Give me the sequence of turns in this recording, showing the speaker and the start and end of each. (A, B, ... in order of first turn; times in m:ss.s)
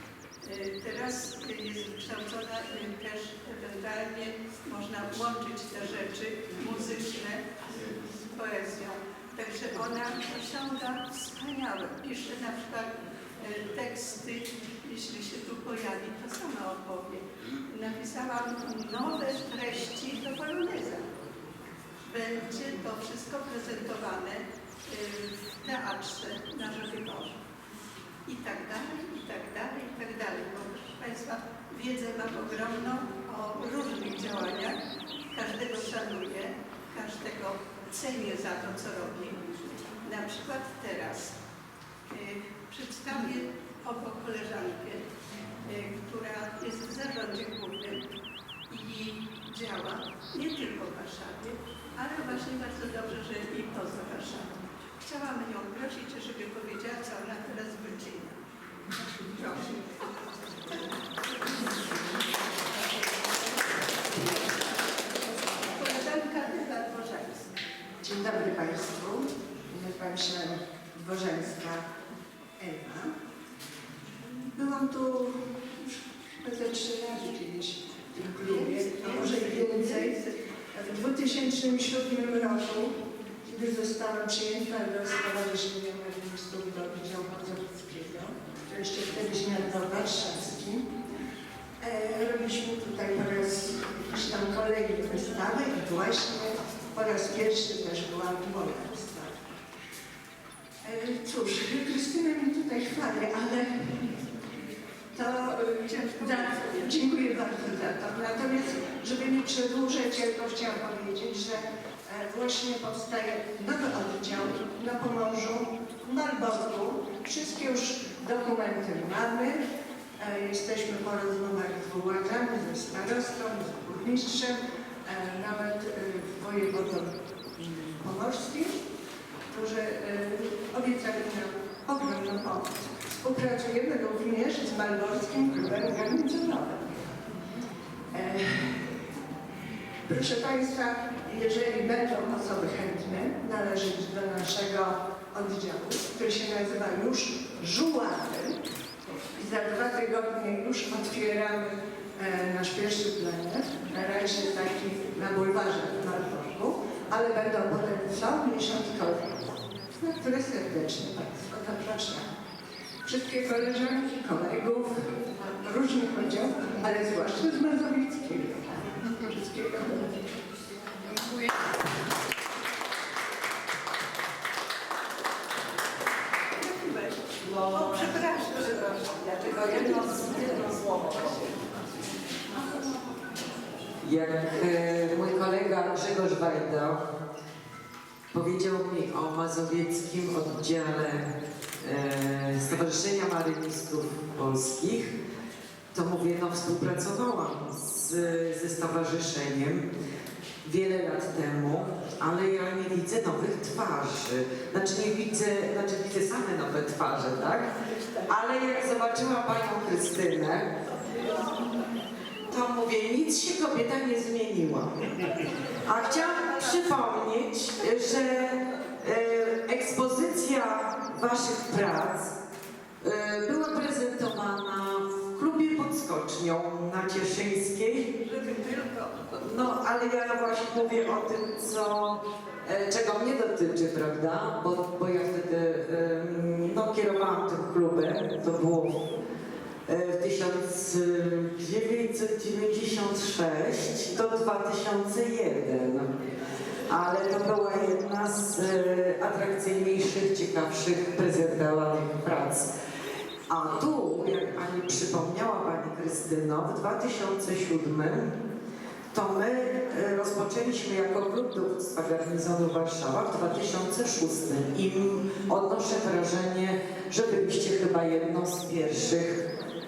0:00.4-0:21.1 A
0:22.0-0:27.4 A
0:28.3-0:34.8 A
0:35.3-0:41.4 A
0:42.1-0:45.0 A
0:45.6-0:48.0 A
0:48.7-0:58.4 A
0:59.2-1:00.1 A
1:01.6-1:02.2 B
1:03.0-1:04.5 A
1:04.1-1:04.5 B
1:05.5-1:06.0 B
1:05.8-1:07.5 A
1:08.0-1:11.9 B
1:12.6-1:13.1 B
1:14.6-1:30.9 B
1:18.3-1:20.4 A
1:31.8-1:39.6 B
1:40.8-1:44.2 B
1:45.2-1:59.6 B
1:45.8-1:46.9 A
2:00.2-2:08.8 B
2:09.5-2:17.2 B
2:18.1-2:19.0 B
2:20.1-2:39.4 B
2:40.0-2:42.3 B
2:43.0-2:50.2 B
2:56.6-3:03.2 A
3:04.0-3:07.0 C
3:08.3-3:15.1 C
3:15.9-3:19.8 C
3:20.6-3:27.7 C
3:28.3-3:30.7 C
3:32.5-3:35.1 C
3:35.8-3:42.3 C
3:43.0-3:48.1 C
3:48.2-3:49.5 A
3:49.4-3:59.1 C
3:59.9-4:06.1 C
4:06.9-4:12.7 C
4:13.5-4:18.3 C
4:19.1-4:29.4 C